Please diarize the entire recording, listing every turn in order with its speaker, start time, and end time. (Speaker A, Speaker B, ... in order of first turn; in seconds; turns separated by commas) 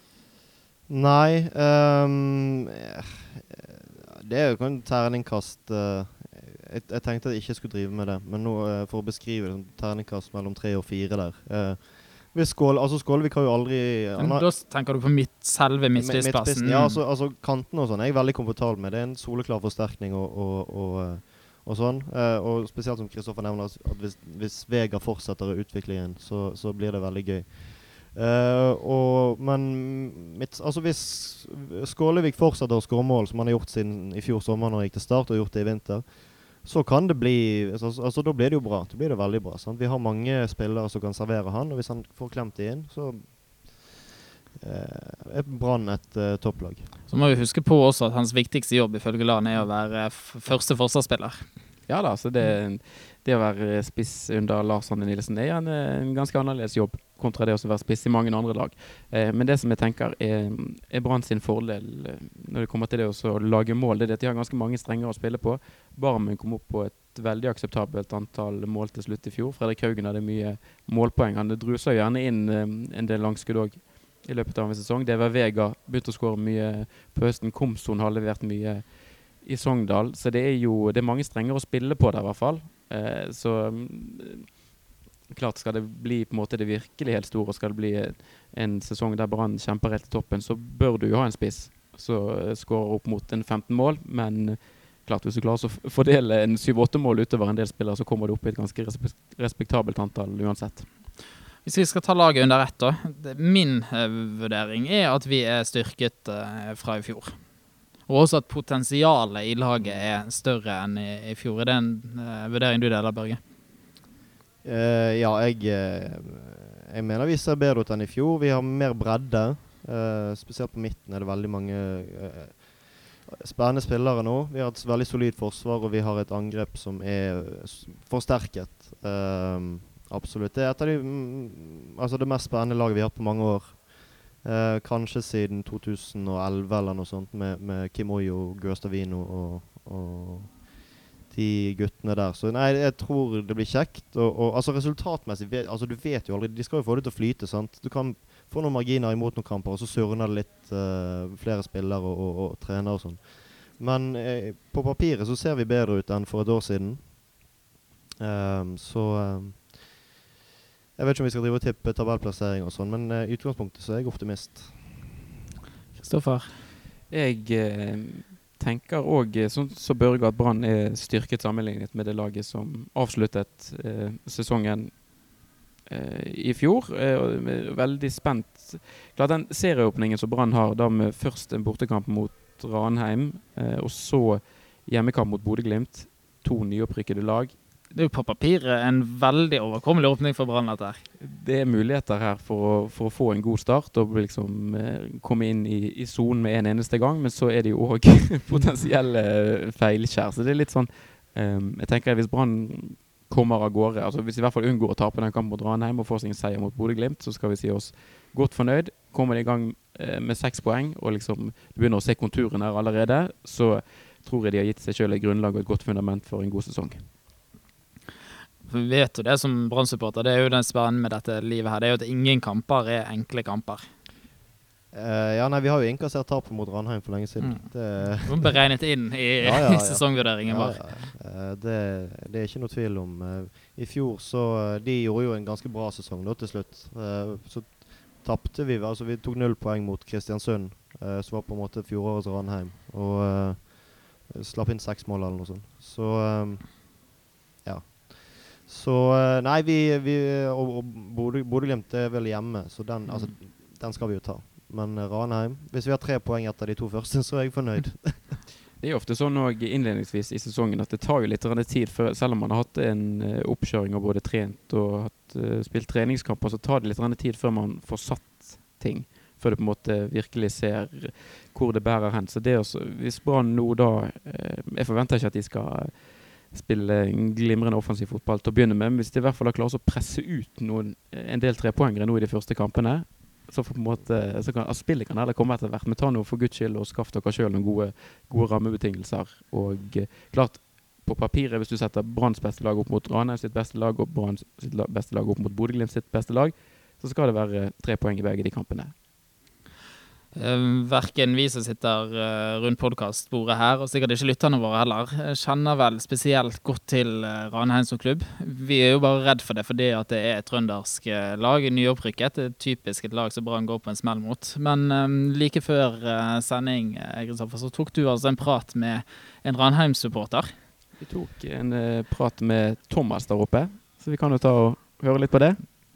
Speaker A: 0.9-14.5, Speaker B: 14.2-17.0, Speaker A: 16.0-43.9, Speaker A: 44.6-46.9, Speaker B: 47.1-51.5, Speaker C: 51.9-84.6, Speaker C: 85.3-100.9, Speaker B: 101.6-107.4, Speaker B: 108.1-113.4, Speaker A: 114.6-157.4, Speaker A: 158.2-160.0, Speaker A: 161.0-165.1, Speaker B: 166.0-166.6, Speaker C: 167.1-175.1, Speaker C: 175.9-187.6, Speaker B: 187.9-191.1, Speaker C: 191.2-217.1, Speaker B: 218.7-223.9, Speaker A: 224.9-228.6, Speaker B: 227.4-231.1, Speaker A: 229.4-247.1, Speaker A: 247.7-258.4, Speaker C: 258.8-298.9, Speaker B: 300.4-320.5, Speaker C: 321.0-325.6